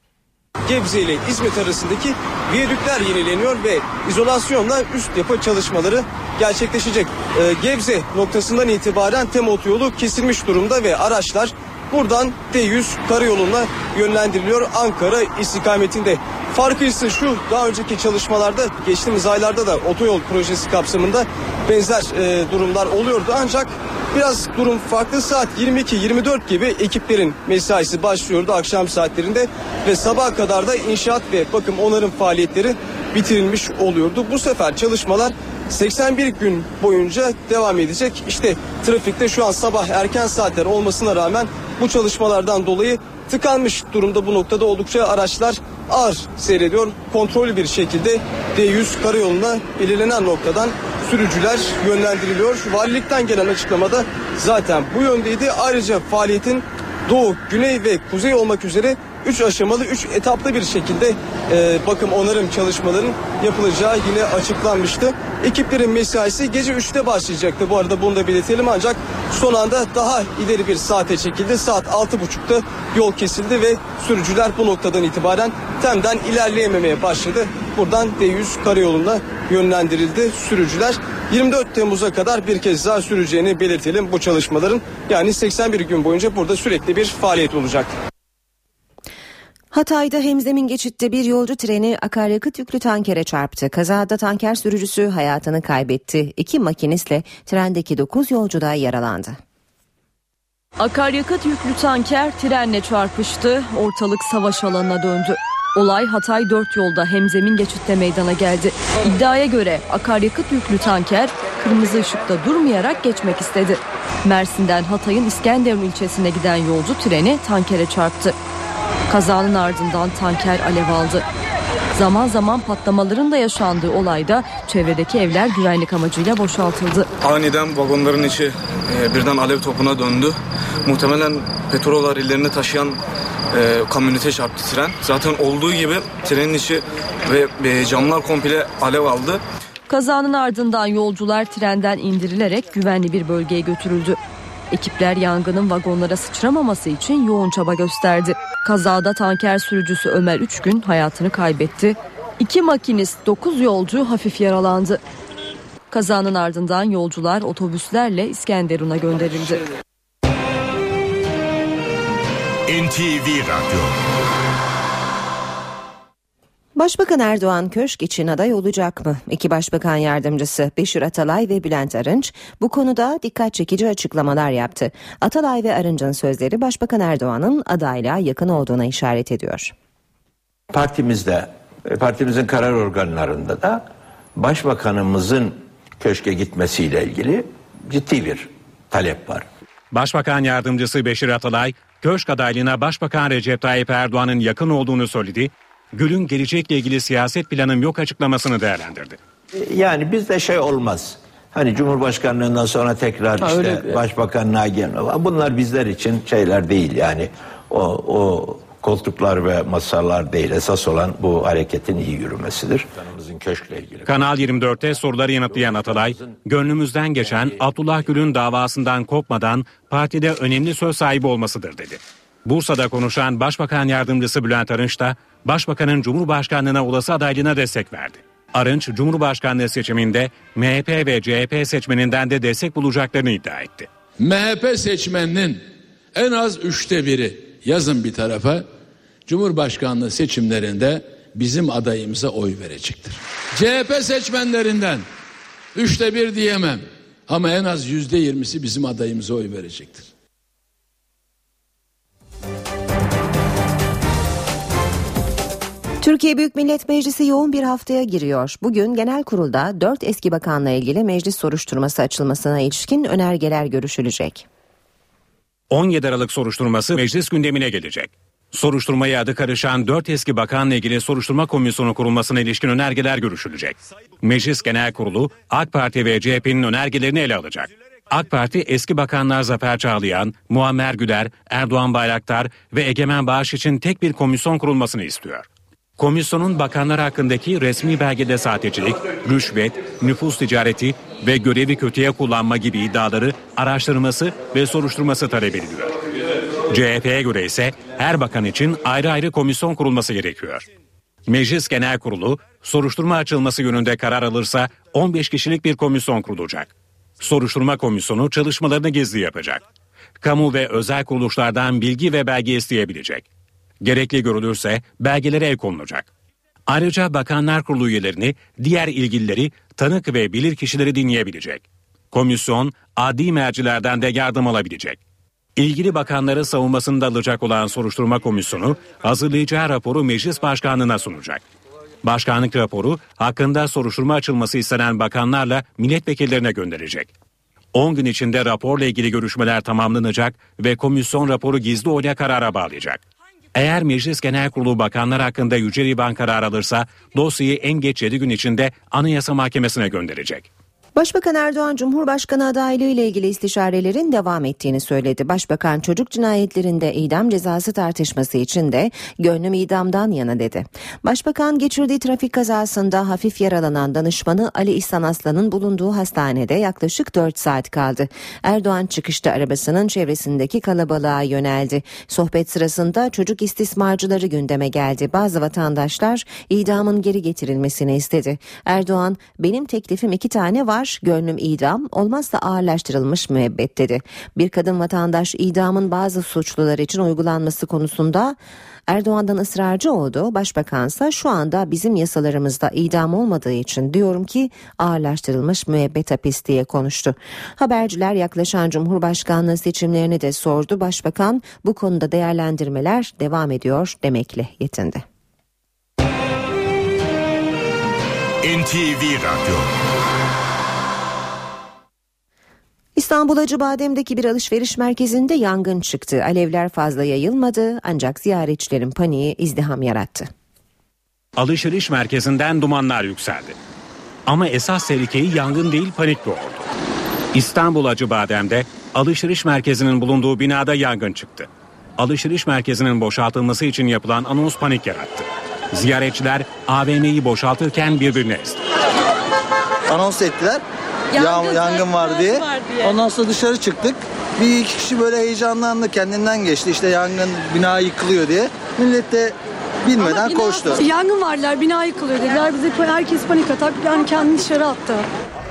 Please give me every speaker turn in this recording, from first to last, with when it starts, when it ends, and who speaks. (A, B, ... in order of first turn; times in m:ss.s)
0:00.6-1:28.0 A
1:29.7-1:39.4 B
1:40.8-1:58.3 C
1:59.1-2:01.2 C
2:02.0-2:07.1 C
2:07.2-2:13.0 D
2:13.5-2:19.4 D
2:19.9-2:24.2 C
2:24.7-2:35.0 C
2:35.9-2:39.6 C
2:42.7-2:43.9 E
2:46.7-2:59.7 B
3:00.7-3:03.8 F
3:04.4-3:09.4 F
3:09.9-3:19.2 G
3:19.5-3:34.1 F
3:34.1-3:53.9 G
3:35.7-3:36.3 F
3:54.2-3:55.6 H
3:56.1-3:58.7 H
3:59.2-4:05.0 H
4:05.7-4:10.1 H
4:16.0-4:24.4 B
4:25.7-4:45.4 G
4:46.0-4:56.0 G
4:56.7-5:00.6 G
5:01.3-5:09.6 G
5:10.2-5:13.2 G
5:13.8-5:16.1 G
5:16.7-5:25.0 G
5:25.6-5:31.4 G
5:32.0-5:37.1 G
5:37.7-5:43.0 G
5:43.5-5:50.5 G
5:50.9-6:45.0 B
6:48.4-6:49.7 E
6:52.9-7:00.3 B
7:01.4-7:03.5 G
7:04.2-7:06.6 G
7:07.3-7:18.6 G
7:19.9-7:20.6 I
7:21.1-7:22.9 J
7:21.2-7:29.3 I
7:29.8-7:30.8 I
7:30.0-7:35.0 J